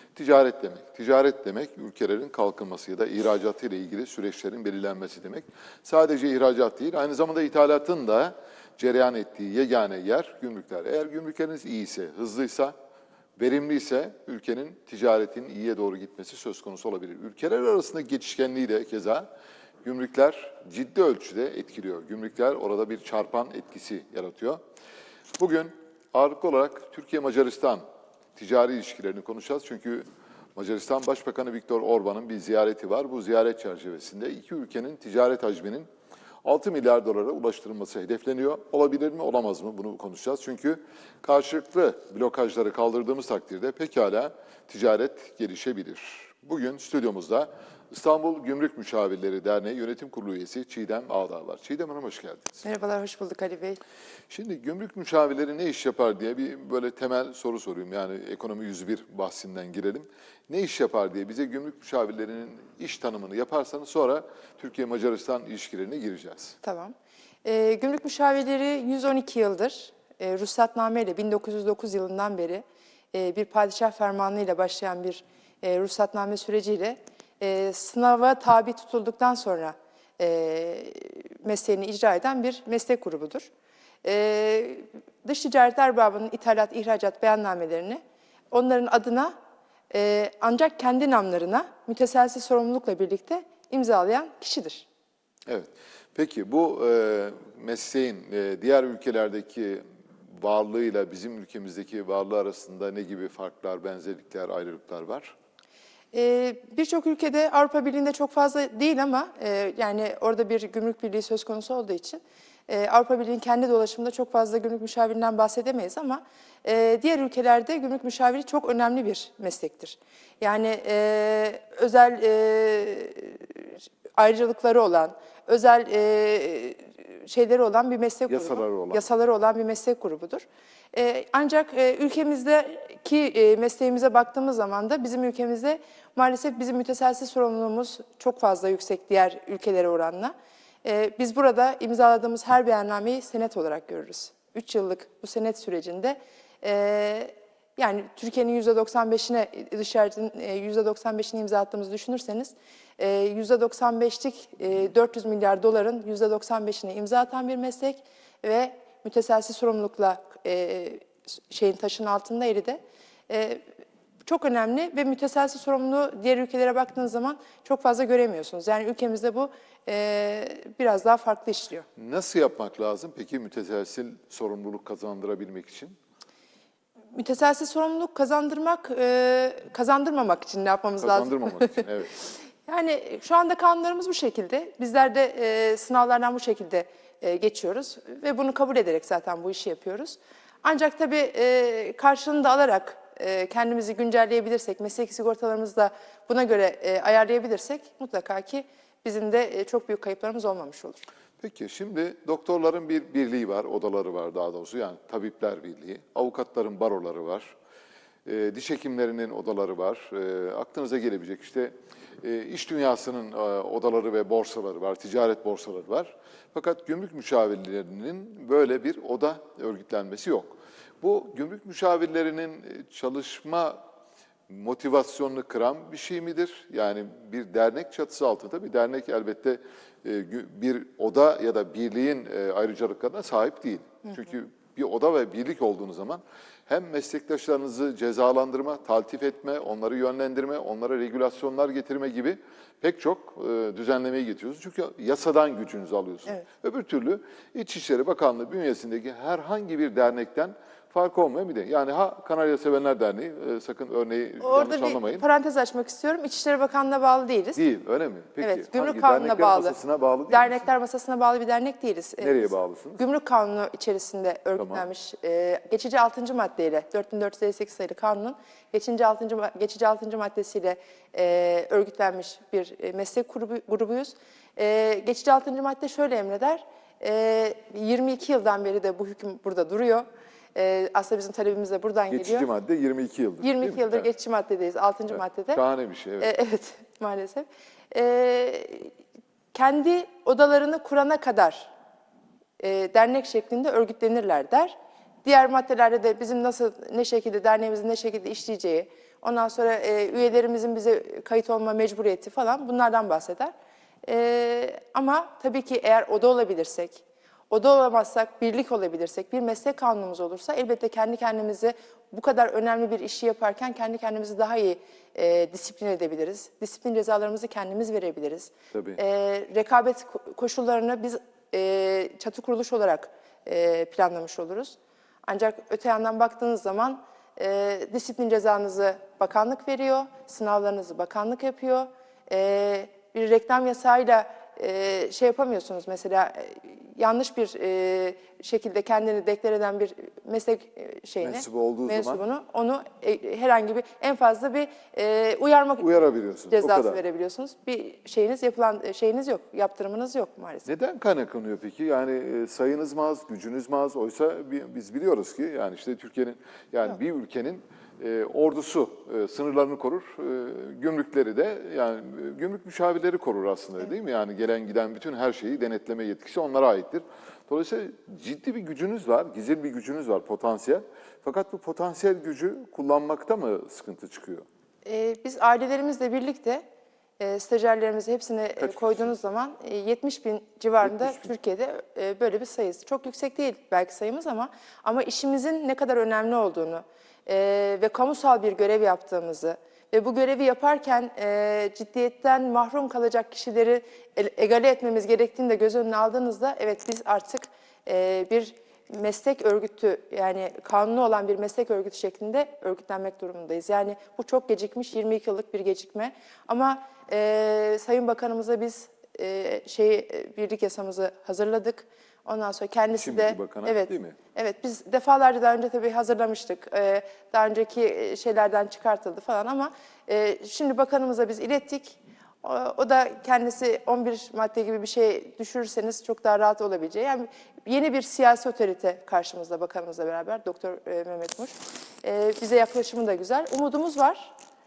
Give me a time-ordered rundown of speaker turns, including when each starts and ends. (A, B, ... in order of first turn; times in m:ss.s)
0:00.1-0:12.7 A
0:13.4-0:19.3 A
0:19.8-0:24.6 A
0:25.4-0:27.8 A
0:28.3-0:30.0 A
0:30.6-0:35.9 A
0:36.4-0:52.5 A
0:52.6-0:53.8 B
0:54.3-1:06.6 A
1:06.6-1:23.5 B
1:24.0-1:28.0 B
1:28.5-1:29.3 B
1:29.9-1:34.8 B
1:35.5-1:45.3 A
1:46.1-2:20.3 B
2:08.3-2:09.0 A
2:20.8-2:43.6 B
2:44.2-2:51.9 B
2:52.0-2:56.0 A
2:57.1-3:21.0 B
3:01.0-3:02.1 A
3:21.4-3:27.5 A
3:28.2-3:43.8 A
3:44.5-4:15.2 A
4:14.4-4:17.6 B
4:17.6-4:20.6 A
4:18.4-4:19.7 B
4:20.3-4:42.4 B
4:22.2-4:23.0 A
4:24.6-4:24.8 A
4:42.1-4:44.1 A
4:43.4-4:45.6 B
4:45.1-4:46.3 A
4:46.2-4:48.9 B
4:49.5-4:51.7 B
4:52.6-5:03.5 B
5:04.0-5:45.9 B
5:18.7-5:19.0 A
5:41.2-5:42.2 A
5:45.8-5:47.0 A
5:46.5-5:50.7 B
5:50.6-6:14.4 A
6:14.8-6:16.6 B
6:17.2-7:14.3 B
6:18.6-6:19.1 A
6:20.8-6:21.3 A
6:53.0-6:54.2 A